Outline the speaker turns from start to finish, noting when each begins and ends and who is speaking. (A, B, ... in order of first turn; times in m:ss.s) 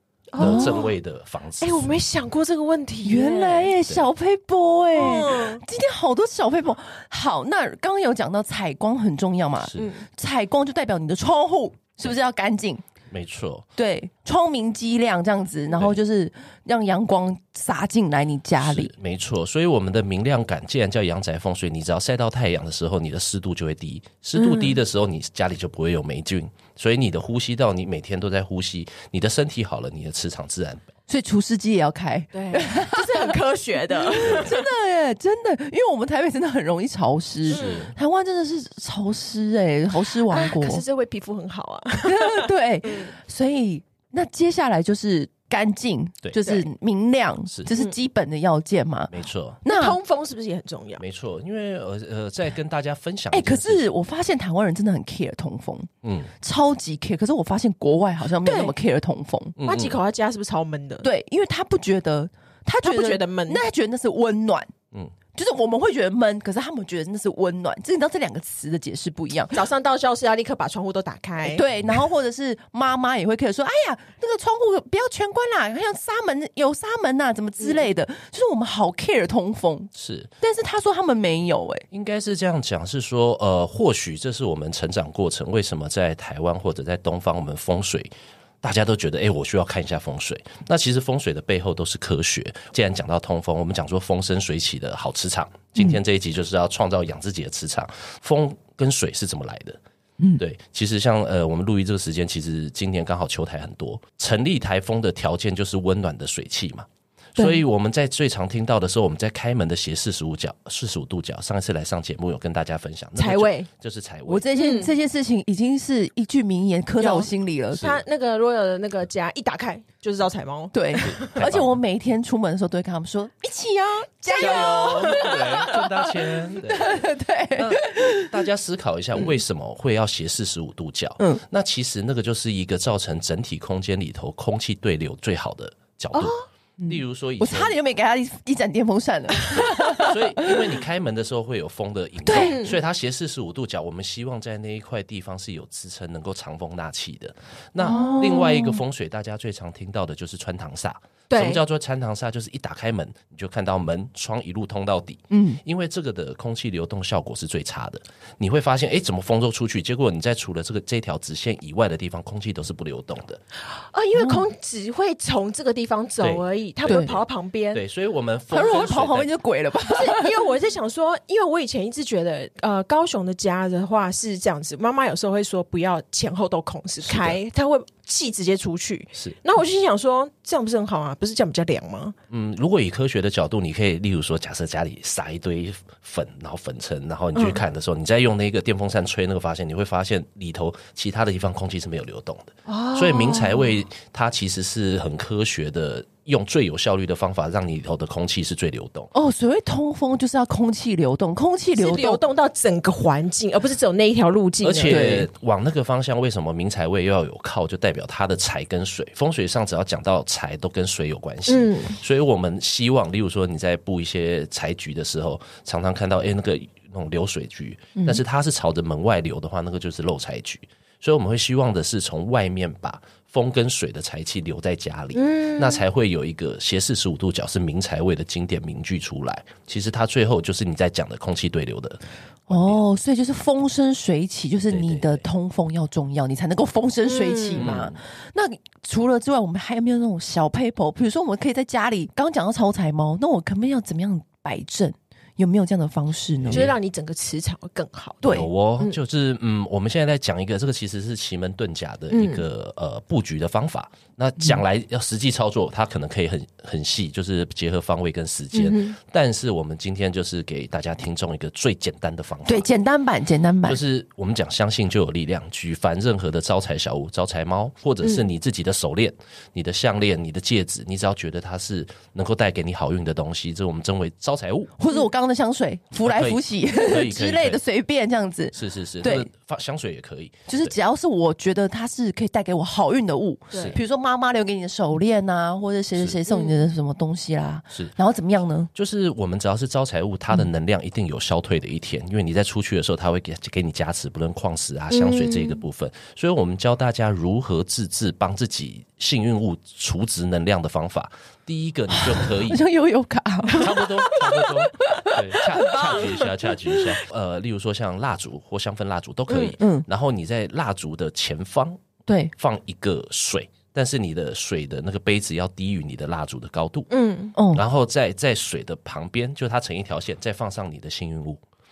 0:00.3-0:00.9 A
0:00.4-0:01.9 B
0:00.4-0:00.8 C
0:01.6-0:03.7 A
0:03.0-0:12.8 C
0:05.0-0:05.6 A
0:09.8-0:10.1 A
0:13.1-0:13.7 B
0:13.8-0:18.9 C
0:15.7-0:16.0 B
0:18.6-0:30.9 B
0:24.4-0:24.8 A
0:31.1-0:33.4 C
0:32.3-0:34.6 A
0:34.0-0:40.8 C
0:34.2-0:34.5 B
0:37.5-0:37.9 A
0:37.5-0:37.9 B
0:40.3-0:43.1 A
0:42.0-0:49.1 C
0:46.4-0:46.7 A
0:49.1-0:49.6 B
0:49.6-0:50.0 C
0:49.7-0:51.0 A
0:51.0-0:53.8 B
0:53.3-0:59.6 C
0:56.0-0:56.3 B
0:58.4-0:58.8 A
0:59.6-1:00.0 B
0:59.6-1:01.1 A
1:01.0-1:04.7 C
1:02.8-1:03.6 A
1:05.3-1:09.6 C
1:09.5-1:11.6 A
1:11.4-1:21.8 C
1:20.0-1:20.3 B
1:21.9-1:28.1 B
1:28.6-1:39.8 B
1:40.4-1:54.5 B
1:53.2-1:53.7 A
1:54.3-1:57.9 C
1:54.6-1:54.9 A
1:57.0-2:01.4 A
2:00.7-2:08.3 C
2:01.1-2:01.8 B
2:04.2-2:05.7 A
2:04.4-2:17.8 B
2:16.1-2:16.4 A
2:16.8-2:20.6 C
2:19.4-2:20.0 A
2:19.6-2:43.4 B
2:22.2-2:22.6 C
2:22.3-2:22.8 A
2:27.8-2:28.8 C
2:27.8-2:28.4 A
2:31.3-2:31.6 A
2:35.3-2:35.6 C
2:43.8-2:47.8 A
2:44.2-2:44.4 C
2:46.2-2:47.1 B
2:46.9-2:47.1 C
2:47.7-2:49.3 B
2:48.5-2:50.4 C
2:49.9-3:02.2 A
2:57.0-2:57.4 B
3:02.3-3:19.1 B
3:07.4-3:07.6 A
3:12.7-3:13.8 A
3:19.1-3:22.2 C
3:21.8-3:25.1 A
3:24.6-3:52.8 B
3:24.9-3:25.3 C
3:31.5-3:32.0 A
3:45.1-3:45.8 A
3:52.5-4:06.7 C
3:54.7-3:55.2 B
3:57.1-3:57.8 A
3:57.6-3:58.0 B
4:06.4-4:06.8 B
4:06.5-4:09.0 A
4:08.2-4:08.5 C
4:08.2-4:22.7 B
4:12.1-4:12.4 A
4:18.5-4:19.0 A
4:22.5-4:23.8 C
4:23.6-4:34.7 B
4:34.8-4:39.3 C
4:36.0-4:37.6 B
4:38.5-4:40.7 B
4:40.5-4:48.7 C
4:43.5-4:43.8 A
4:43.5-4:43.8 B
4:46.3-4:46.6 A
4:48.8-5:02.6 B
4:54.9-4:55.6 A
5:02.0-5:05.7 C
5:03.5-5:11.8 B
5:05.5-5:06.3 A
5:09.3-5:09.6 A
5:09.5-5:09.8 C
5:12.1-5:12.3 C
5:12.4-5:16.9 B
5:16.9-5:17.4 A
5:17.4-5:17.6 C
5:17.5-5:21.4 B